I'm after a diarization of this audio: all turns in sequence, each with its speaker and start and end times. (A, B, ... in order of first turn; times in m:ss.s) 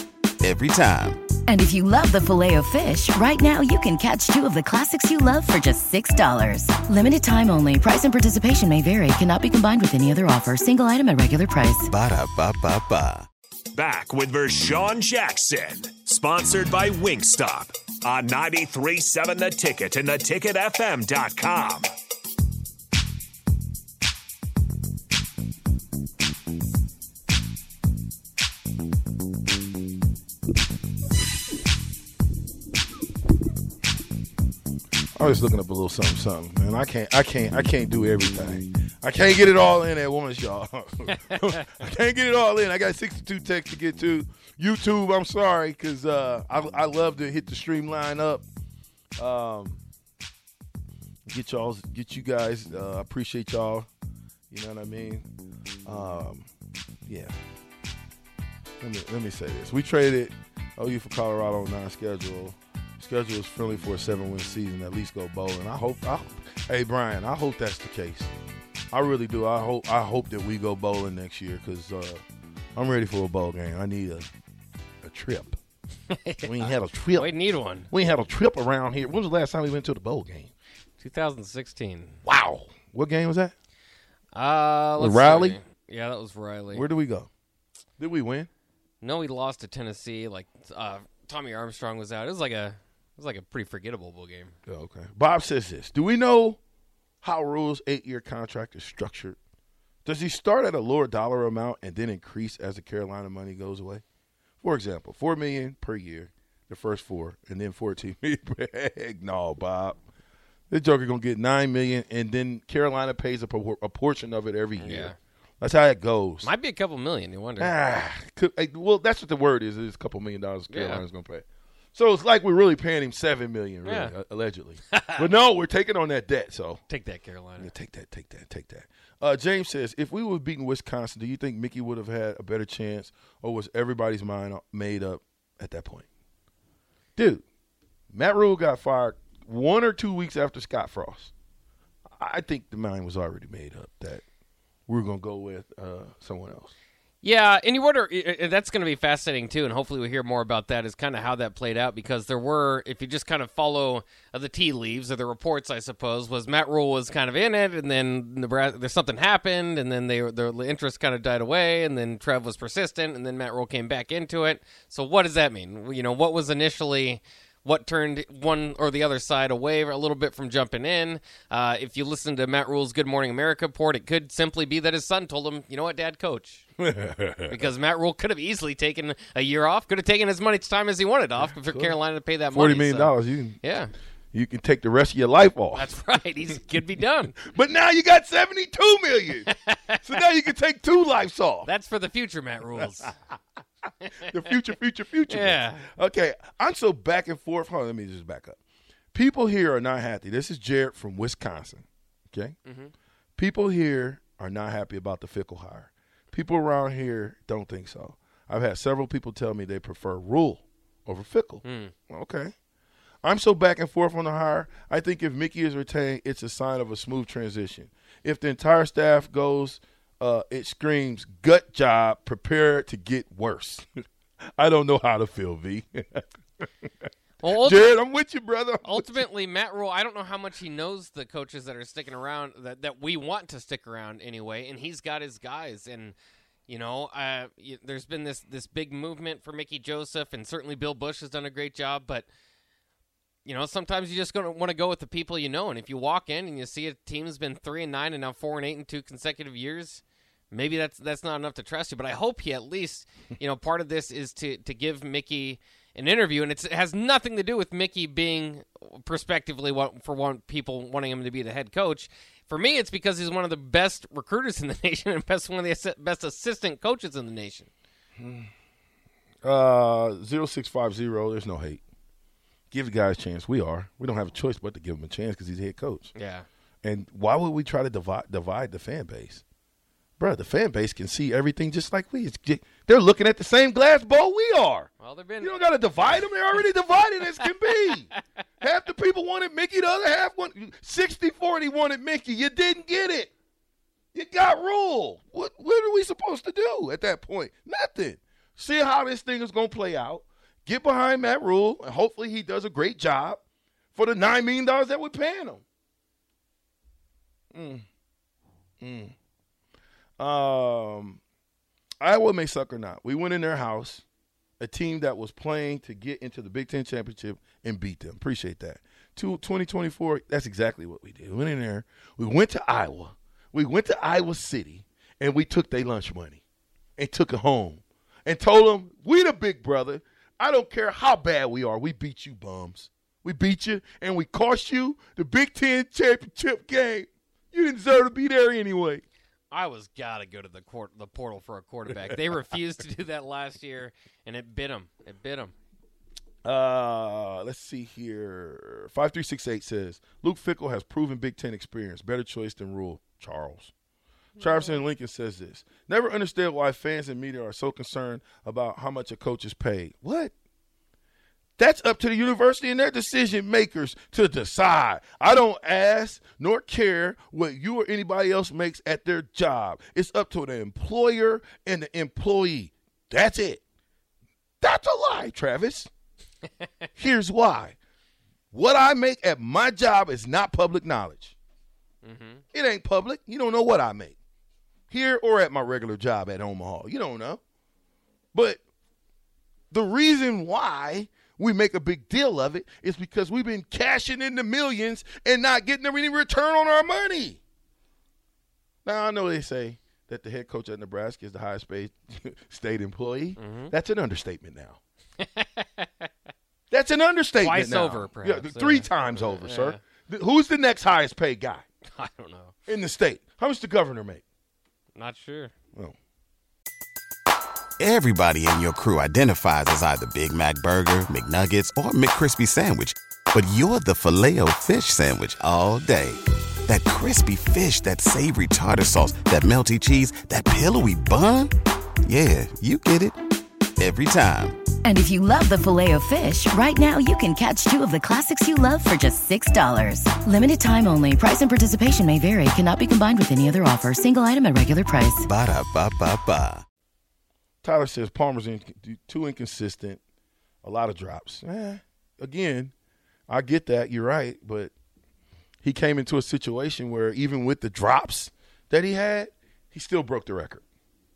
0:00.4-0:01.2 A
0:01.5-0:11.9 B
0:11.9-0:13.3 A
0:13.7-0:21.9 C
0:35.2-0:48.4 D
0:49.2-0:49.8 D
0:51.3-0:53.9 D
0:54.5-0:55.3 D
0:55.8-0:56.5 D
0:57.1-0:57.4 D
0:58.8-1:08.3 D
1:08.9-1:12.2 D
1:12.8-1:14.3 D
1:15.0-1:15.6 D
1:16.1-1:17.9 E
1:16.4-1:17.3 D
1:17.9-1:20.5 D
1:21.0-1:22.2 E
1:22.2-1:23.5 D
1:24.3-1:26.9 E
1:25.0-1:25.6 D
1:26.7-1:27.3 D
1:28.0-1:28.5 D
1:29.0-1:34.6 E
1:34.7-1:36.6 D
1:37.2-1:39.4 D
1:40.0-1:44.0 D
1:44.6-1:50.0 D
1:50.7-1:56.5 D
1:54.8-1:55.2 E
1:56.4-1:57.7 E
1:57.6-2:01.4 D
2:00.7-2:01.0 E
2:02.0-2:06.8 D
2:03.8-2:04.1 E
2:04.9-2:05.2 E
2:06.9-2:07.7 E
2:07.6-2:16.0 D
2:17.2-2:17.4 D
2:18.1-2:21.3 D
2:22.2-2:24.2 D
2:24.9-2:26.7 D
2:27.2-2:56.7 E
2:56.8-2:57.6 D
2:57.5-3:03.9 E
3:01.6-3:02.0 D
3:02.5-3:03.6 D
3:04.3-3:05.9 D
3:05.7-3:07.4 E
3:07.4-3:09.5 D
3:09.5-3:10.0 E
3:10.0-3:11.7 D
3:11.6-3:13.2 E
3:14.2-3:18.6 D
3:15.3-3:15.9 E
3:19.1-3:22.6 D
3:22.7-3:22.9 E
3:23.4-3:32.5 D
3:31.6-3:31.9 E
3:33.2-3:43.9 D
3:44.6-3:49.2 D
3:47.4-3:48.0 E
3:48.8-3:56.2 E
3:56.7-4:02.3 E
4:03.4-4:27.7 E
4:28.2-4:28.5 D
4:29.4-4:31.8 D
4:32.7-4:36.1 D
4:36.2-4:36.5 E
4:36.8-4:39.4 D
4:40.2-4:44.9 D
4:45.0-4:45.6 E
4:45.4-4:48.1 D
4:48.6-4:53.3 D
4:54.1-5:03.4 D
5:03.9-5:05.6 D
5:07.5-5:07.8 D
5:08.8-5:09.1 D
5:10.2-5:11.2 D
5:12.0-5:14.0 D
5:14.6-5:26.4 D
5:27.0-5:39.0 D
5:39.5-5:45.5 E
5:46.4-5:53.7 D
5:54.4-6:00.3 D
5:54.4-5:54.8 E
6:01.6-6:13.6 D
6:14.6-6:15.9 D
6:17.0-6:17.8 D
6:18.5-6:21.4 D
6:22.0-6:22.4 E
6:22.5-6:24.2 D
6:24.9-6:27.4 D
6:28.3-6:28.6 D
6:29.7-6:37.4 D
6:38.8-6:44.8 D
6:43.4-6:43.7 E
6:45.2-6:46.1 E
6:46.7-6:51.6 D
6:47.4-6:49.8 E
6:51.9-6:52.5 E
6:52.7-6:54.2 D
6:55.0-6:55.5 E
6:57.8-7:13.2 A
7:13.8-7:14.6 A
7:14.8-7:25.3 B
7:25.2-7:26.6 A
7:27.6-7:30.0 D
7:30.6-7:32.7 D
7:33.3-7:34.7 D
7:35.6-7:40.6 D